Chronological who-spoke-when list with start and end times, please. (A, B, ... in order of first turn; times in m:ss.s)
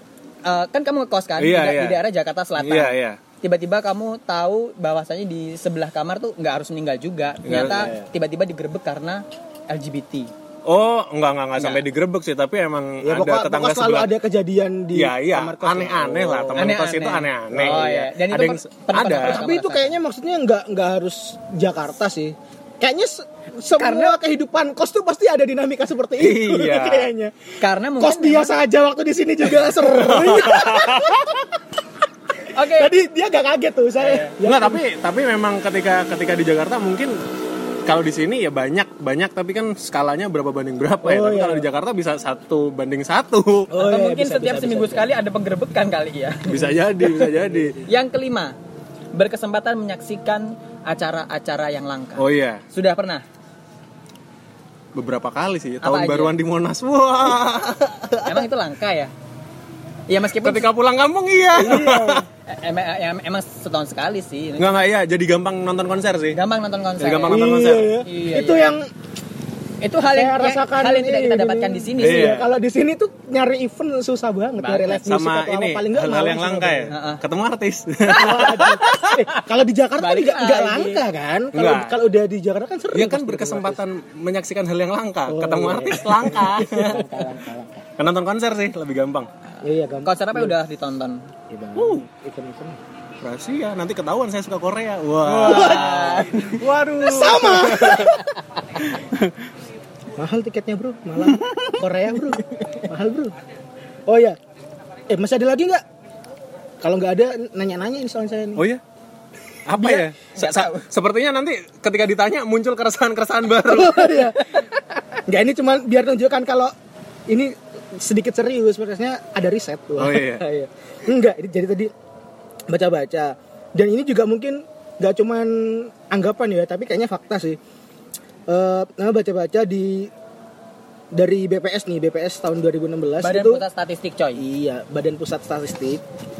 0:00.4-0:10.3 A
0:01.4-0:02.0 B
0:02.6-0:03.2 B
0:07.4-0:07.9 B
0:10.6-0:14.1 B
0:13.0-0:16.8 C
0:14.9-0:19.4 B
0:16.6-0:19.9 A
0:19.2-0:27.3 C
0:23.8-0:24.2 A
0:26.2-0:27.1 B
0:27.6-0:28.5 A
0:28.0-0:31.5 C
0:29.9-0:31.3 B
0:32.5-0:32.9 A
0:32.6-0:34.8 C
0:34.0-0:34.3 A
0:34.4-0:37.2 B
0:37.8-0:43.7 B
0:41.0-0:41.7 C
0:43.7-0:45.1 C
0:43.8-0:46.7 A
0:46.5-0:47.8 B
0:46.7-0:47.8 C
0:47.8-0:48.6 A
0:49.1-0:53.2 A
0:52.2-0:52.6 B
0:54.9-0:58.5 B
0:55.8-0:56.3 A
0:58.2-0:59.1 A
1:00.1-1:00.7 A
1:00.4-1:02.2 B
1:01.6-1:02.3 C
1:02.5-1:04.7 A
1:04.6-1:06.4 B
1:06.3-1:08.8 A
1:07.0-1:08.0 B
1:07.3-1:08.9 C
1:09.8-1:12.4 A
1:10.1-1:16.9 C
1:12.0-1:12.5 B
1:14.6-1:15.0 A
1:15.0-1:18.8 B
1:16.9-1:17.2 A
1:18.1-1:23.8 C
1:18.1-1:19.2 A
1:20.0-1:21.0 A
1:21.5-1:22.0 B
1:22.9-1:27.1 B
1:25.3-1:27.8 C
1:26.3-1:27.4 A
1:28.0-1:29.3 B
1:29.6-1:30.6 C
1:30.0-1:31.3 A
1:31.5-1:32.8 C
1:31.8-1:32.0 B
1:33.2-1:38.2 B
1:35.2-1:36.2 C
1:35.3-1:36.6 A
1:36.9-1:38.2 C
1:38.8-1:39.3 B
1:40.2-1:43.3 C
1:41.3-1:41.7 B
1:44.1-1:44.4 C
1:45.1-1:45.8 C
1:46.8-1:48.6 C
1:49.6-1:54.2 B
1:49.8-1:50.0 C
1:50.3-1:50.9 A
1:53.6-1:56.7 C
1:57.3-2:01.9 C
2:00.0-2:00.4 B
2:02.7-2:07.6 C
2:08.5-2:10.1 C
2:11.1-2:13.6 C
2:13.2-2:14.4 A
2:14.4-2:16.0 C